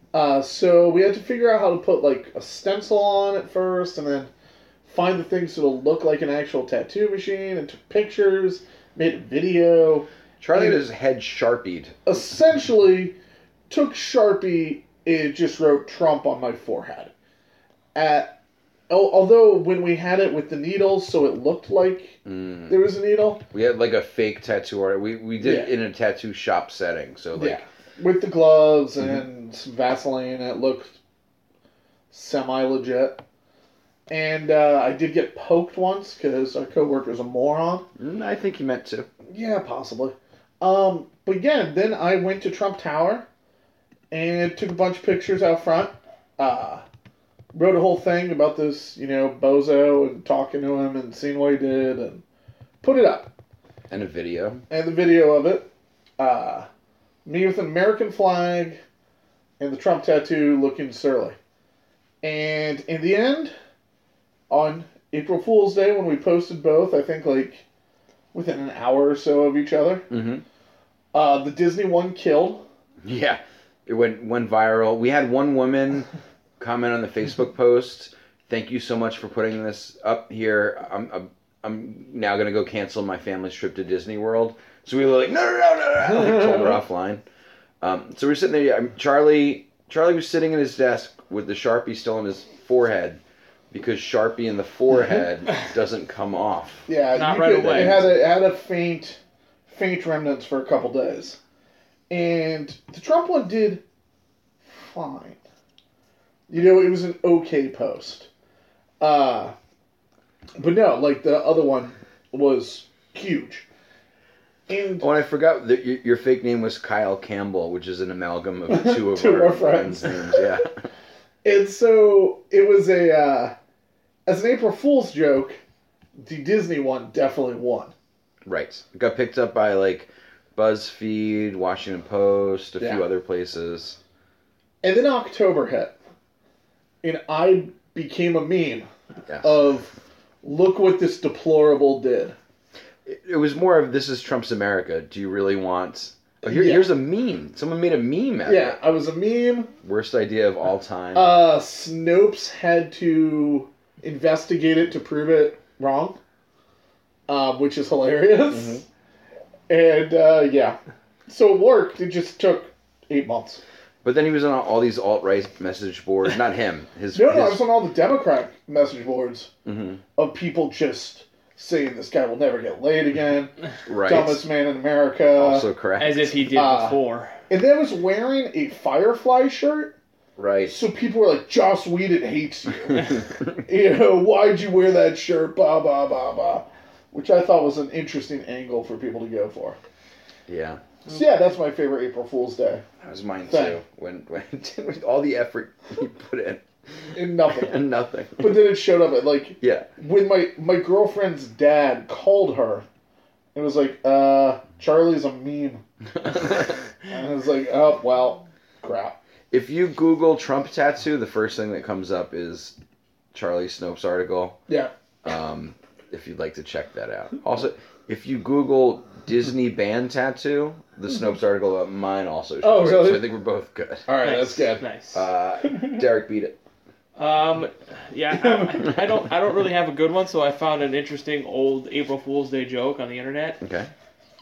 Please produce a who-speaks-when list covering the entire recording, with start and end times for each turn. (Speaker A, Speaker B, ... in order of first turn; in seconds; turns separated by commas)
Speaker A: 0.1-4.3, Speaker A: 4.8-10.8, Speaker B: 10.4-12.0, Speaker A: 12.1-13.2, Speaker A: 13.7-17.1, Speaker A: 17.9-22.2, Speaker B: 22.2-22.8, Speaker A: 22.7-23.4, Speaker B: 23.5-27.6, Speaker A: 25.4-25.7, Speaker A: 27.4-31.0, Speaker A: 32.1-33.2, Speaker A: 34.1-37.9, Speaker B: 38.0-39.1, Speaker A: 39.3-43.3, Speaker A: 44.1-46.9, Speaker A: 47.5-52.2, Speaker A: 52.8-53.3, Speaker B: 53.9-54.6, Speaker A: 54.7-56.7, Speaker A: 57.2-58.8, Speaker A: 59.6-61.4, Speaker A: 62.2-63.5, Speaker A: 64.5-67.6, Speaker A: 68.3-70.1, Speaker B: 70.1-70.4, Speaker A: 71.1-72.7, Speaker B: 73.0-76.1, Speaker B: 76.6-87.2, Speaker A: 86.0-86.8, Speaker B: 87.8-96.9, Speaker A: 96.9-101.4, Speaker C: 97.1-98.0, Speaker B: 97.4-98.2, Speaker A: 102.1-103.8, Speaker A: 104.6-105.4, Speaker A: 106.5-108.3, Speaker A: 109.0-109.5, Speaker A: 110.6-113.7, Speaker A: 114.7-115.1, Speaker B: 115.0-120.9, Speaker A: 118.7-120.5, Speaker A: 121.4-123.5, Speaker A: 124.3-125.6, Speaker A: 126.2-127.9, Speaker B: 128.5-134.0, Speaker A: 132.8-133.1, Speaker A: 134.8-135.9, Speaker A: 137.0-138.9, Speaker B: 139.3-139.6, Speaker A: 139.4-142.4, Speaker B: 143.1-148.8, Speaker A: 146.4-146.9, Speaker A: 148.5-149.7, Speaker B: 149.8-151.3, Speaker A: 151.1-156.2, Speaker A: 157.3-158.8, Speaker B: 158.5-158.8, Speaker A: 159.7-163.6, Speaker B: 164.0-167.6, Speaker A: 167.1-169.5, Speaker B: 169.7-170.0, Speaker A: 170.2-173.5, Speaker B: 173.9-174.4, Speaker A: 174.0-175.7, Speaker B: 175.4-176.3, Speaker C: 176.0-177.3, Speaker A: 176.5-179.9, Speaker B: 180.4-180.8, Speaker A: 180.7-189.8, Speaker B: 182.9-183.2, Speaker B: 190.5-190.8, Speaker A: 191.1-192.8, Speaker C: 191.1-191.3, Speaker B: 193.0-198.7, Speaker A: 193.5-193.8, Speaker A: 197.1-197.8, Speaker A: 198.4-202.9, Speaker B: 199.6-199.9, Speaker A: 203.6-205.8, Speaker B: 206.2-206.8, Speaker A: 207.1-209.2, Speaker B: 209.5-212.8, Speaker B: 213.3-214.6, Speaker B: 215.2-224.1, Speaker A: 222.6-223.3, Speaker A: 224.1-224.9, Speaker C: 224.2-225.2, Speaker B: 225.1-226.6, Speaker C: 227.2-233.6, Speaker A: 228.3-228.8, Speaker B: 233.6-233.9